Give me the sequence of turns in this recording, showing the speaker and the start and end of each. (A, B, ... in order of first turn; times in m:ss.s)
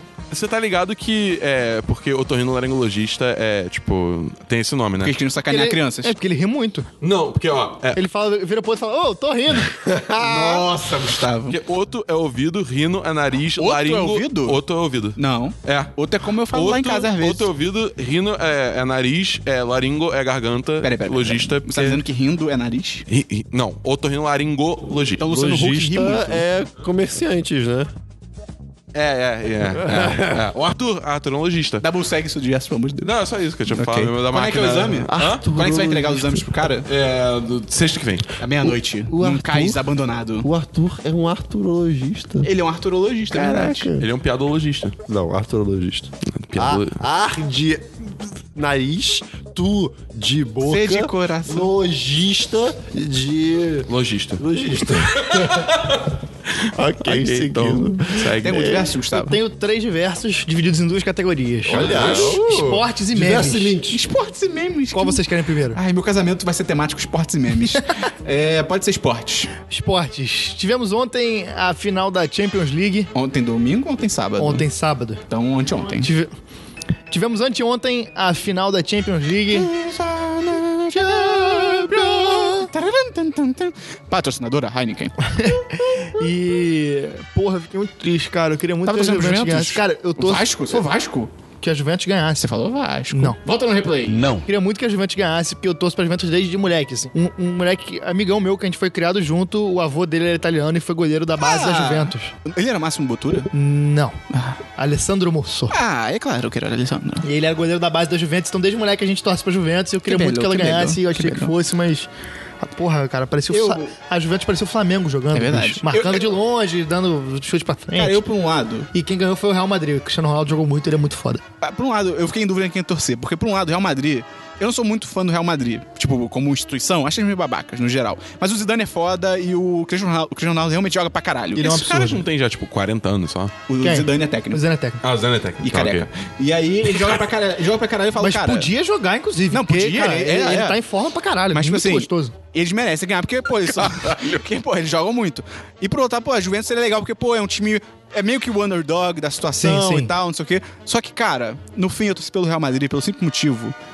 0:00.3-0:05.2 A
0:05.0-0:06.2 B
0:05.5-0:06.9 C
0:07.0-0:08.0 A
0:08.0-0:09.8 C
0:09.6-0:10.8 D
0:10.2-0:11.6 B
0:11.5-0:15.9 A
0:13.6-0:14.6 B
0:15.2-0:17.5 B
0:16.5-0:22.0 A
0:20.8-0:23.1 B
0:23.1-0:25.2 A
0:25.2-0:26.4 B
0:25.3-0:27.9 D
0:28.9-0:31.8 A
0:29.7-0:30.5 D
0:31.8-0:36.9 B
0:33.0-0:35.4 A
0:35.1-0:36.7 D
0:36.9-0:38.3 A
0:38.4-0:40.5 B
0:39.1-0:39.8 D
0:40.4-0:42.5 D
0:42.4-0:43.9 B
0:43.3-0:44.1 D
0:44.0-0:45.0 A
0:45.1-0:55.9 D
0:46.3-0:47.0 A
0:50.7-0:51.7 B
0:53.9-0:54.4 A
0:55.2-0:56.1 A
0:56.7-0:58.9 D
0:57.0-0:58.8 A
0:58.4-0:59.4 B
0:59.1-1:03.8 C
1:01.6-1:04.0 D
1:01.9-1:02.3 B
1:03.9-1:09.5 B
1:04.9-1:05.8 C
1:09.7-1:13.1 C
1:13.1-1:14.7 B
1:14.4-1:15.2 C
1:15.3-1:16.1 B
1:15.9-1:16.3 C
1:17.1-1:19.7 C
1:19.5-1:25.2 B
1:20.9-1:22.7 C
1:25.2-1:30.9 C
1:28.8-1:31.3 B
1:31.6-1:32.5 C
1:32.4-1:34.4 B
1:33.1-1:33.4 C
1:34.4-1:42.3 C
1:41.4-1:43.5 B
1:43.5-1:44.2 C
1:44.3-1:44.6 B
1:44.8-1:45.8 C
1:45.7-1:47.3 B
1:47.2-1:52.1 C
1:50.0-1:51.5 B
1:52.6-1:58.2 C
1:53.5-1:53.9 B
1:55.3-1:56.3 B
1:57.9-1:58.9 B
1:58.9-2:01.4 C
2:01.6-2:11.9 B
2:11.6-2:12.2 C
2:11.6-2:13.5 A
2:13.7-2:14.6 B
2:13.8-2:15.0 C
2:15.0-2:16.1 A
2:15.6-2:18.7 B
2:18.2-2:22.3 C
2:19.5-2:20.8 B
2:21.5-2:33.8 B
2:23.9-2:24.1 A
2:29.6-2:30.1 C